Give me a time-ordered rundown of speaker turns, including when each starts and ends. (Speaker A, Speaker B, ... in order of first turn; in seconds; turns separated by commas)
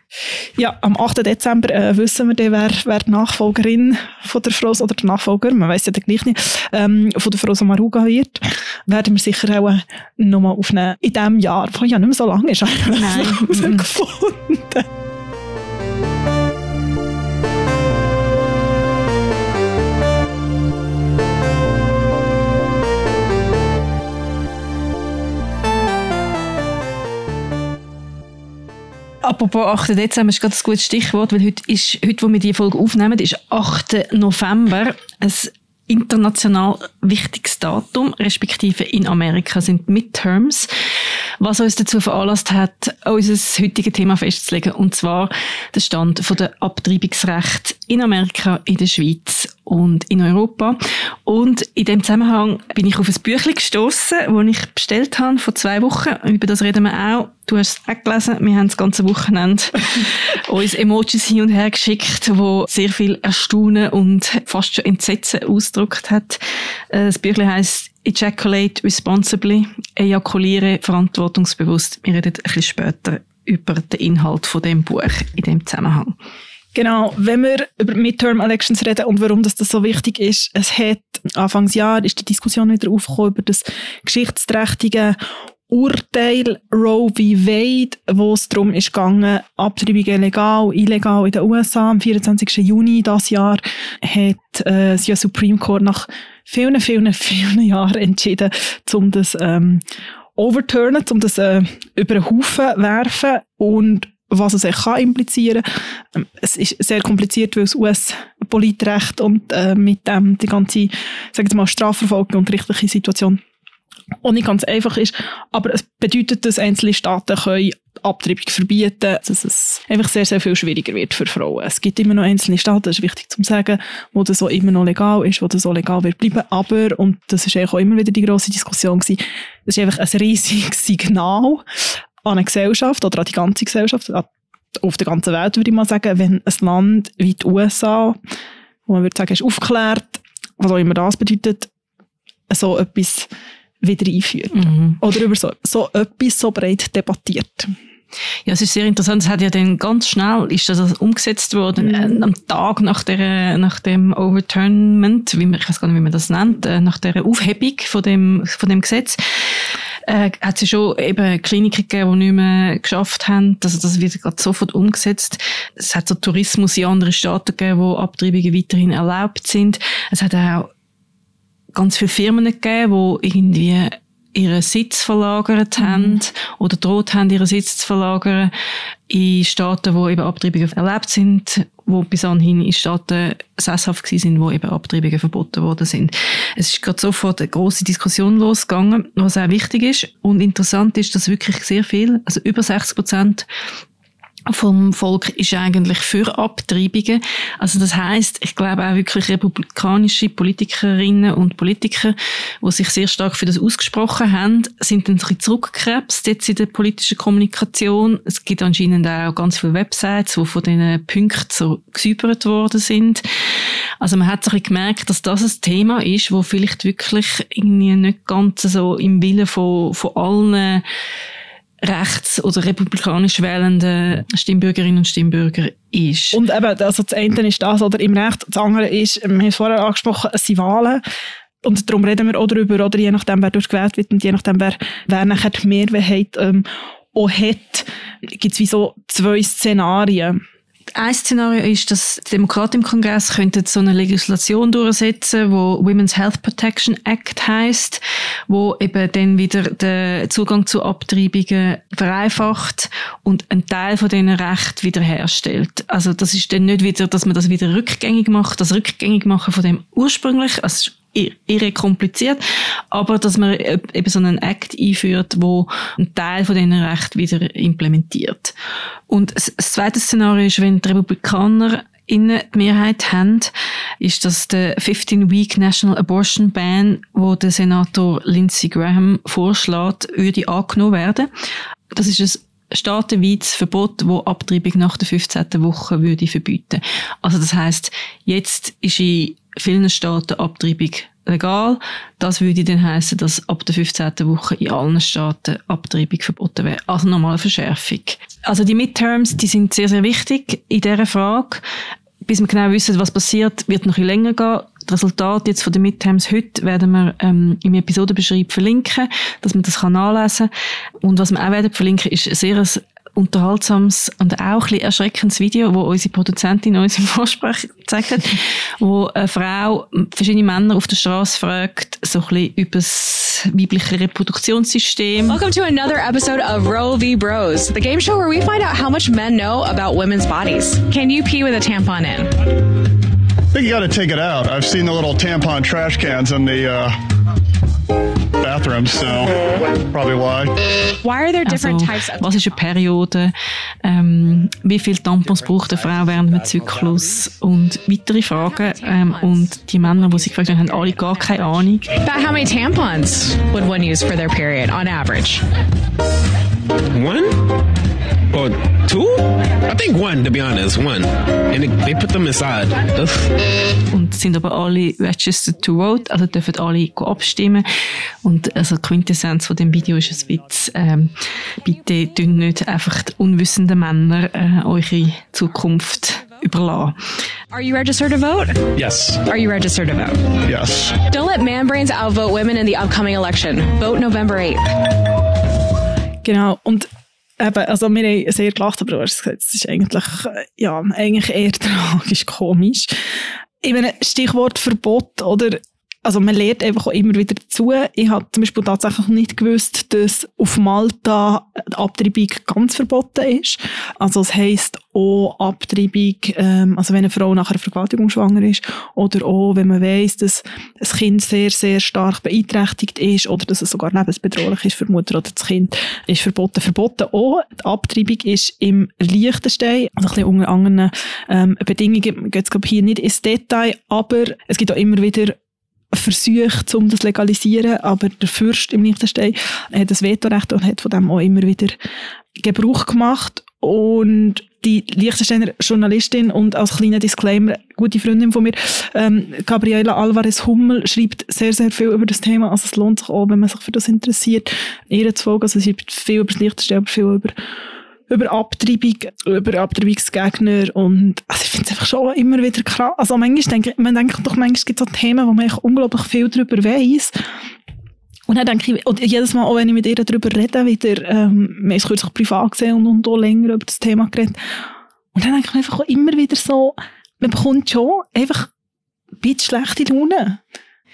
Speaker A: 0.6-14.9, Speaker B: 12.9-13.9, Speaker B: 29.2-40.7, Speaker B: 41.4-66.4, Speaker B: 66.9-76.1, Speaker A: 76.8-85.2, Speaker A: 85.7-99.8, Speaker A: 100.4-113.4, Speaker A: 114.2-131.6, Speaker A: 132.2-138.2, Speaker A: 138.9-141.7, Speaker A: 142.5-143.3, Speaker A: 143.8-147.7, Speaker B: 144.5-145.0, Speaker B: 148.5-170.7, Speaker A: 151.8-152.2, Speaker B: 171.7-178.5, Speaker A: 175.8-176.2, Speaker B: 179.1-193.4, Speaker B: 194.5-213.2, Speaker B: 214.0-220.8, Speaker B: 221.8-226.4, Speaker A: 226.3-231.0, Speaker A: 231.6-240.4, Speaker B: 240.9-268.6, Speaker B: 269.1-281.3, Speaker B: 281.9-301.6, Speaker B: 302.2-310.5, Speaker B: 311.0-325.4, Speaker C: 325.3-332.3, Speaker D: 333.5-337.0, Speaker D: 338.4-340.6, Speaker C: 341.0-342.6, Speaker B: 341.4-351.9, Speaker C: 348.6-349.4, Speaker C: 351.9-355.4, Speaker E: 356.9-357.5, Speaker E: 358.3-363.4, Speaker B: 363.9-367.7, Speaker B: 368.2-377.0, Speaker C: 377.5-380.4, Speaker E: 378.8-379.2, Speaker D: 380.4-381.0, Speaker C: 381.0-384.7, Speaker A: 386.2-386.9, Speaker A: 387.4-392.9, Speaker A: 393.6-425.4, Speaker A: 425.9-431.8, Speaker A: 432.4-447.3, Speaker A: 448.1-457.1, Speaker A: 458.3-464.4, Speaker A: 465.1-468.5, Speaker A: 469.2-470.4